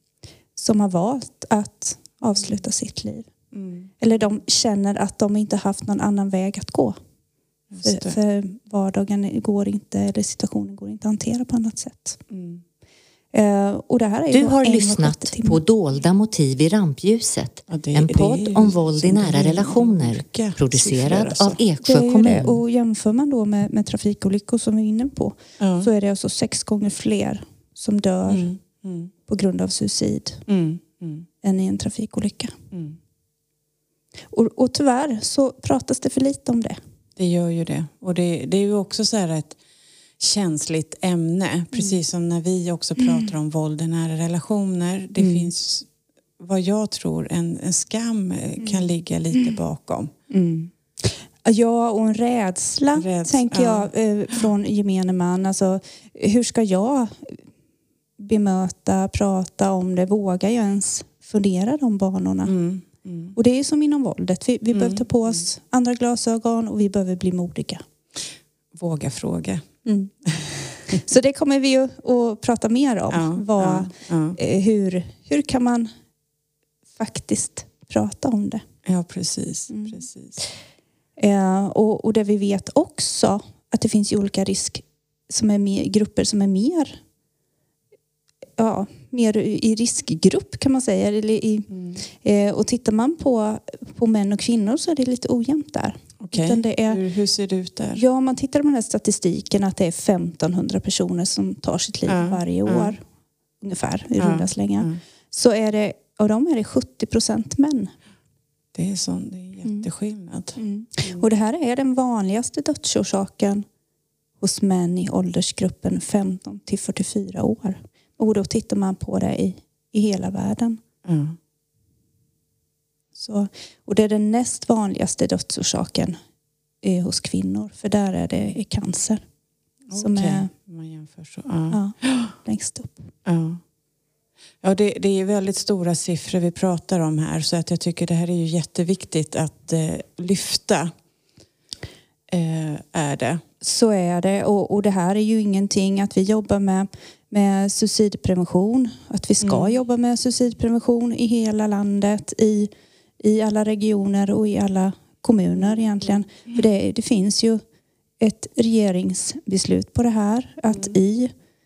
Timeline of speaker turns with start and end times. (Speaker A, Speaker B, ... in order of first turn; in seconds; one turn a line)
Speaker A: 0.6-3.3
Speaker B: 3.5-3.9
Speaker A: 4.0-7.0
Speaker B: 7.7-8.2
Speaker A: 7.8-12.2
Speaker B: 12.3-12.6
Speaker A: 13.3-15.6
Speaker C: 14.3-22.6
Speaker B: 17.7-21.6
Speaker A: 21.8-28.5
Speaker B: 25.6-25.9
Speaker B: 28.3-29.1
Speaker A: 29.3-30.4
Speaker B: 30.5-31.3
Speaker A: 31.4-32.5
Speaker B: 32.7-33.0
Speaker A: 34.3-36.8
Speaker B: 37.2-39.6
Speaker B: 40.2-50.1
Speaker A: 45.2-45.5
Speaker A: 50.3-57.4
Speaker B: 52.9-53.9
Speaker A: 58.2-62.5
Speaker B: 62.4-63.4
Speaker A: 63.3-67.8
Speaker B: 64.7-65.4
Speaker B: 68.7-69.7
Speaker A: 69.8-70.1
Speaker B: 70.2-71.0
Speaker A: 70.9-75.9
Speaker B: 73.1-74.4
Speaker A: 76.9-78.6
Speaker B: 78.8-80.4
Speaker A: 79.7-80.1
Speaker A: 81.2-87.0
Speaker A: 88.6-97.0
Speaker B: 91.7-92.0
Speaker B: 96.2-98.0
Speaker A: 97.9-103.0
Speaker B: 102.1-102.9
Speaker A: 103.6-107.9
Speaker B: 104.2-105.0
Speaker B: 108.7-111.2
Speaker A: 110.5-113.6
Speaker A: 114.4-120.8
Speaker B: 121.0-121.4
Speaker A: 123.2-126.2
Speaker A: 126.8-129.2
Speaker B: 129.9-132.3
Speaker A: 129.9-130.5
Speaker A: 131.7-133.1
Speaker B: 133.2-133.6
Speaker B: 134.6-140.9
Speaker B: 142.3-143.4
Speaker A: 143.6-157.6
Speaker B: 149.4-149.8
Speaker B: 155.6-156.2
Speaker A: 158.2-161.3